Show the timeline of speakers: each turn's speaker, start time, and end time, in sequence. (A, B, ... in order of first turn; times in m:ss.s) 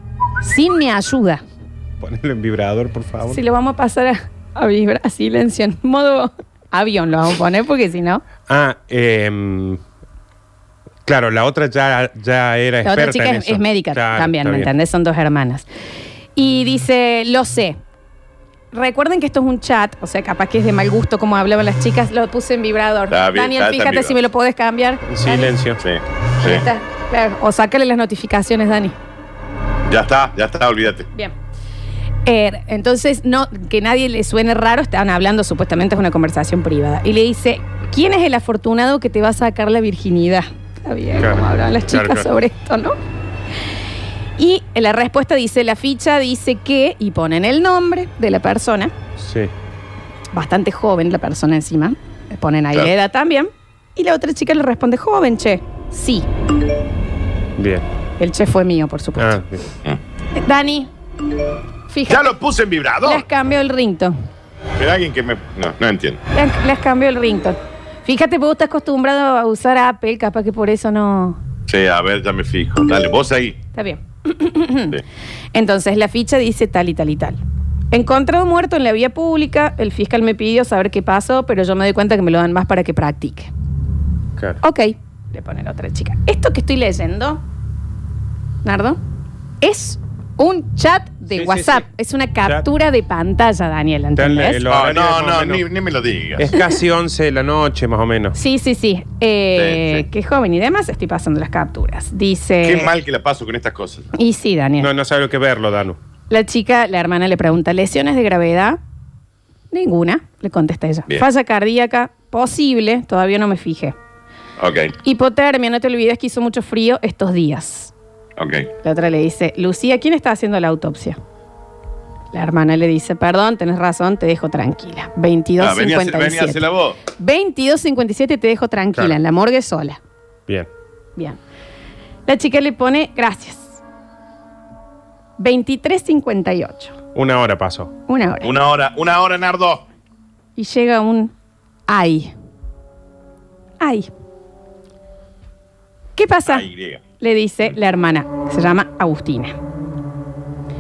0:00.4-0:01.4 A
0:02.0-0:03.4 B
0:03.3-0:08.2 A
0:08.5-0:09.8 B
0:11.1-0:14.7 B
0:12.8-0:15.7 A
0:16.4-0:17.8 A
0:18.7-0:25.6 A
0:23.1-0:24.2 C
0:25.1-0:25.8 B
0:25.8-0:26.7 C
0:26.4-0:29.0 A
0:29.9-0:31.1 C
0:32.3-0:43.0 A
0:41.2-0:42.3 B
0:44.4-0:48.9 A
0:49.2-0:49.5 B
0:50.3-0:56.3 A
0:57.6-0:57.8 B
0:58.2-0:59.4 A
0:59.2-0:59.7 B
1:00.4-1:00.9 A
1:01.9-1:02.4 A
1:02.1-1:03.3 C
1:03.0-1:04.2 A
1:04.8-1:06.2 C
1:06.3-1:11.4 A
1:11.7-1:13.6 C
1:13.8-1:15.0 A
1:15.5-1:17.4 A
1:17.9-1:23.5 A
1:24.6-1:27.4 A
1:28.6-1:29.0 A
1:29.6-1:34.6 A
1:31.3-1:31.9 B
1:34.2-1:35.6 B
1:34.7-1:36.5 C
1:36.4-1:38.4 B
1:38.4-1:42.9 A
1:39.6-1:40.0 C
1:42.6-1:44.1 C
1:44.2-1:44.9 A
1:44.8-1:46.0 B
1:46.3-1:48.8 A
1:49.7-1:54.0 A
1:54.6-1:54.9 C
1:55.0-1:57.9 A
1:58.4-1:58.7 C
1:58.8-2:01.2 A
2:02.3-2:06.6 A
2:05.6-2:07.0 C
2:07.2-2:10.0 A
2:12.3-2:13.8 A
2:15.4-2:17.0 A
2:17.1-2:17.9 B
2:18.1-2:18.5 A
2:18.4-2:19.8 C
2:20.6-2:21.3 A
2:21.9-2:22.3 A
2:23.8-2:24.1 A
2:26.2-2:26.7 A
2:26.5-2:27.0 C
2:27.2-2:29.6 A